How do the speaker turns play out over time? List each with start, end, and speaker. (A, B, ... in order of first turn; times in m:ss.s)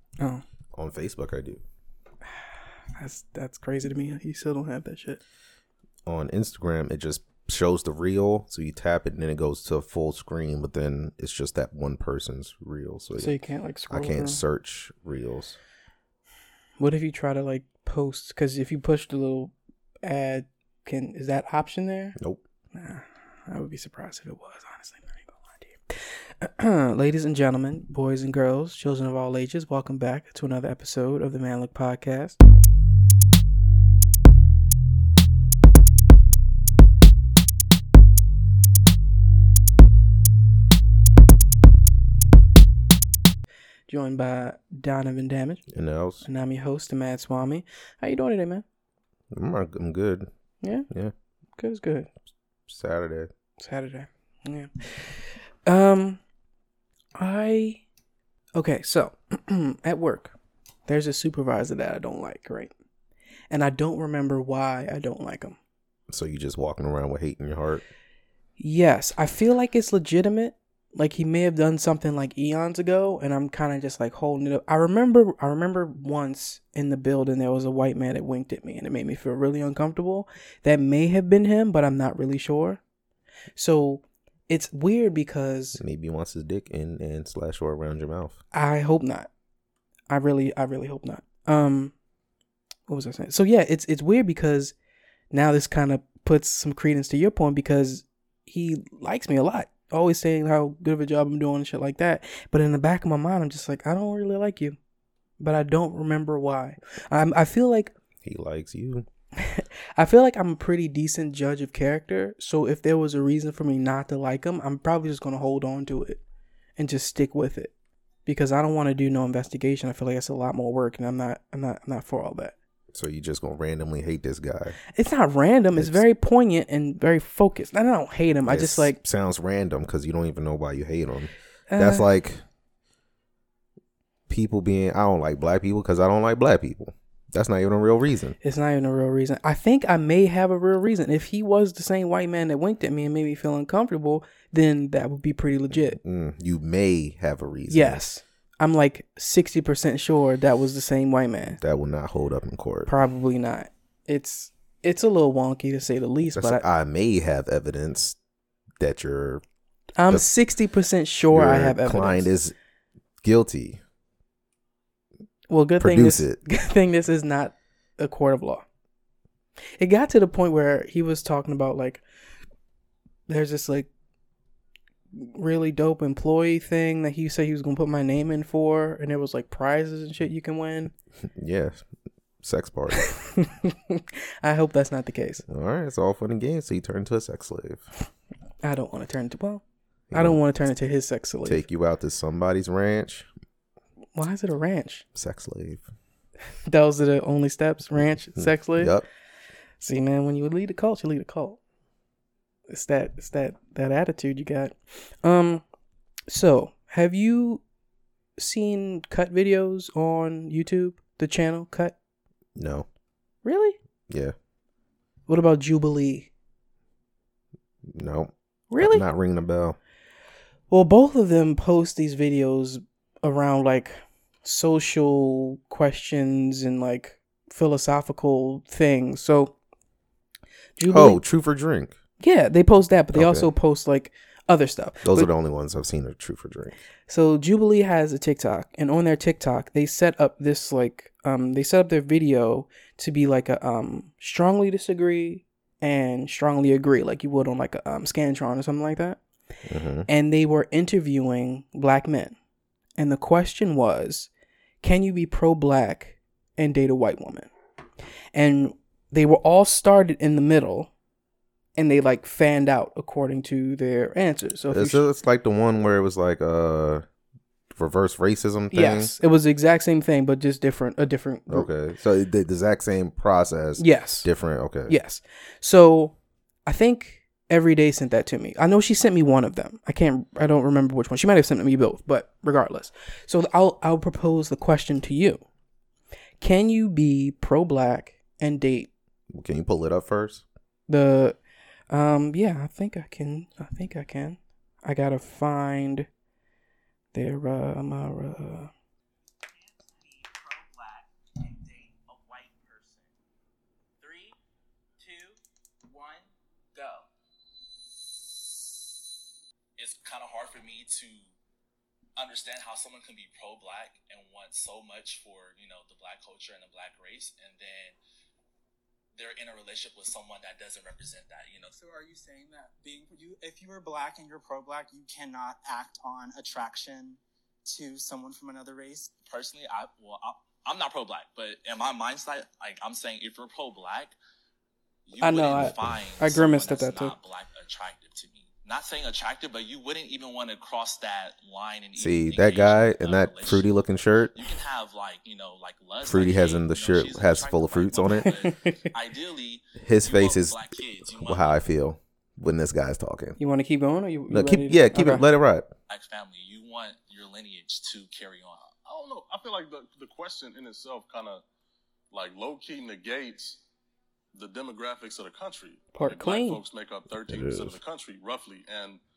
0:00.7-0:01.6 A
0:02.3-0:05.2 B
0:06.0-0:13.3 A
0:13.2-0:14.4 B
0:13.9-0:15.6 A
0:16.8-0:22.2 B
0:22.7-0:32.4 B
0:43.9-0:45.6 B
0:45.7-0:46.2 A
0:46.2-0:48.6 B
0:49.3-0:50.3 A
0:50.6-0:50.9 B
0:51.6-0:52.1 B
0:52.7-0:53.3 A
0:53.6-0:56.2 B
0:57.2-0:57.8 B
0:58.5-1:00.3 B
1:00.9-1:02.7 B
1:03.5-1:05.6 B
1:06.1-1:07.8 A
1:08.6-1:22.8 B
1:23.6-1:25.8 B
1:25.8-1:28.4 A
1:28.5-1:29.3 B
1:30.1-1:31.9 B
1:32.9-1:34.7 B
1:35.3-1:44.8 B
1:45.4-1:47.9 B
1:48.2-1:49.0 A
1:49.4-1:56.2 B
1:56.8-1:57.7 B
1:58.2-2:02.5 B
2:02.9-2:04.8 A
2:04.9-2:09.0 B
2:05.7-2:06.0 A
2:08.4-2:12.4 A
2:11.7-2:12.0 B
2:14.3-2:18.3 A
2:18.4-2:26.0 B
2:25.7-2:28.0 A
2:27.7-2:31.6 B
2:31.6-2:32.9 A
2:32.9-2:36.6 B
2:36.3-2:38.2 A
2:38.8-2:39.4 A
2:40.0-2:42.3 B
2:41.3-2:42.5 A
2:43.2-2:43.8 A
2:45.5-2:48.6 B
2:45.8-2:46.4 A
2:49.8-2:52.0 B
2:53.3-2:53.9 B
2:55.1-3:00.9 B
3:01.4-3:01.8 A
3:02.4-3:03.1 A
3:03.1-3:05.4 B
3:05.5-3:07.8 A
3:08.6-3:09.6 B
3:10.1-3:10.4 A
3:10.1-3:11.6 B
3:11.4-3:13.3 A
3:14.2-3:15.0 B
3:15.1-3:15.8 A
3:16.7-3:18.9 B
3:18.4-3:19.0 A
3:19.8-3:21.6 B
3:22.7-3:25.6 B
3:26.3-3:27.6 B
3:28.4-3:31.9 B
3:32.6-3:32.8 A
3:33.4-3:33.8 B
3:35.3-3:36.3 B
3:37.9-3:39.8 A
3:38.7-3:39.0 B
3:40.7-3:49.6 B
3:50.8-3:51.2 B
3:50.9-3:51.9 A
3:52.2-3:55.3 B
3:53.1-3:53.5 A
3:55.0-3:56.7 A
3:57.1-4:09.2 B
4:09.7-4:10.1 A
4:10.1-4:12.4 B
4:13.0-4:14.3 B
4:14.8-4:17.5 B
4:18.3-4:20.9 B
4:21.8-4:25.0 B
4:24.7-4:27.0 A
4:27.7-4:29.1 A
4:28.7-4:31.7 B
4:31.5-4:35.0 A
4:33.8-4:34.3 B
4:34.9-4:36.1 B
4:36.6-4:45.4 B
4:46.4-4:48.9 B
4:49.3-4:50.4 A
4:50.9-4:51.4 B
4:51.9-4:56.1 B
4:57.1-4:58.7 B
4:59.5-5:03.1 C
5:04.0-5:04.4 C
5:05.0-5:07.0 C
5:09.8-5:11.3 D
5:12.2-5:18.0 D
5:19.1-5:21.8 D
5:21.8-5:29.1 C
5:29.3-5:34.1 D
5:35.0-5:43.6 D
5:35.2-5:37.1 B
5:42.0-5:44.3 A
5:44.3-5:51.6 D
5:46.0-5:48.3 A
5:48.2-5:48.7 B
5:49.8-5:53.4 A
5:53.4-5:55.2 B
5:54.3-5:55.7 A
5:55.9-5:58.7 D
5:58.8-6:01.4 E
6:02.1-6:03.6 E
6:04.3-6:09.0 E
6:05.9-6:06.6 B
6:07.3-6:07.8 A